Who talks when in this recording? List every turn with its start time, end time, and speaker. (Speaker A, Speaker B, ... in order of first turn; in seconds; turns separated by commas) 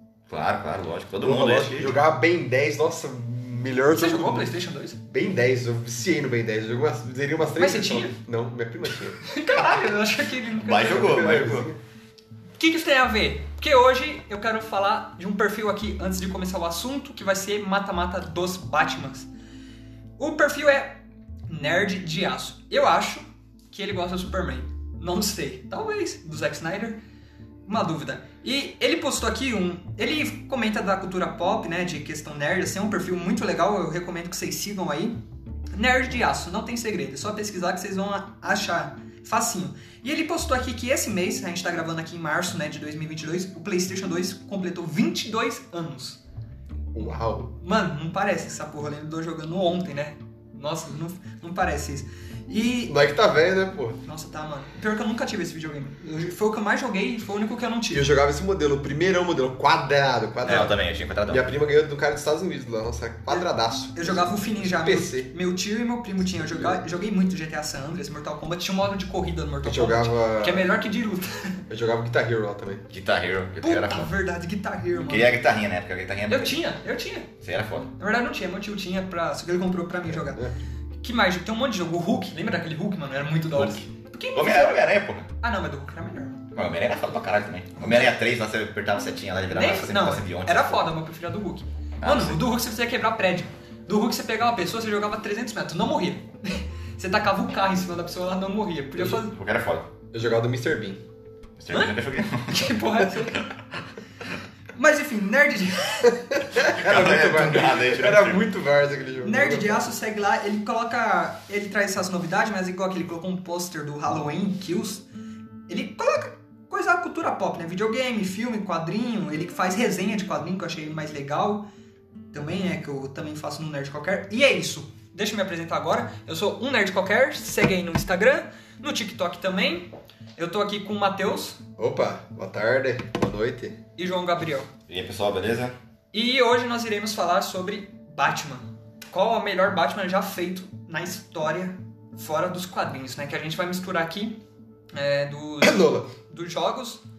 Speaker A: 0.3-2.0, Speaker B: 1.2-4.5, Speaker C: 3.9-5.0, Speaker B: 5.1-9.2, Speaker C: 7.6-8.2, Speaker C: 9.2-11.5, Speaker A: 10.6-11.7, Speaker B: 10.9-11.8, Speaker C: 12.6-19.3, Speaker C: 20.2-27.0, Speaker C: 27.6-35.2, Speaker C: 35.7-46.2, Speaker B: 46.9-47.5, Speaker C: 47.0-53.0, Speaker B: 52.9-54.0, Speaker C: 54.0-58.1, Speaker B: 57.9-60.7, Speaker A: 60.5-61.5, Speaker B: 61.3-65.3, Speaker C: 63.3-71.6, Speaker B: 66.4-66.8, Speaker B: 69.6-70.8, Speaker B: 71.7-72.8, Speaker A: 72.9-74.1, Speaker C: 73.6-75.4, Speaker A: 75.1-76.6, Speaker C: 76.3-77.3, Speaker A: 77.4-77.9, Speaker C: 78.0-80.4, Speaker B: 80.1-80.5, Speaker C: 81.0-86.5, Speaker A: 83.5-83.8, Speaker A: 84.3-85.3, Speaker A: 86.5-90.9, Speaker C: 87.8-88.1, Speaker C: 89.5-99.3, Speaker A: 92.0-92.4, Speaker A: 99.3-99.9, Speaker B: 100.1-101.0, Speaker A: 101.6-103.4, Speaker C: 101.7-103.5, Speaker C: 104.8-106.4, Speaker B: 106.5-109.9, Speaker A: 106.6-108.5, Speaker C: 109.2-115.0, Speaker C: 115.7-121.7, Speaker C: 122.3-131.6, Speaker B: 131.8-133.8, Speaker C: 134.0-134.7, Speaker A: 134.9-135.8, Speaker C: 136.1-144.4, Speaker C: 144.9-147.0, Speaker B: 145.6-146.1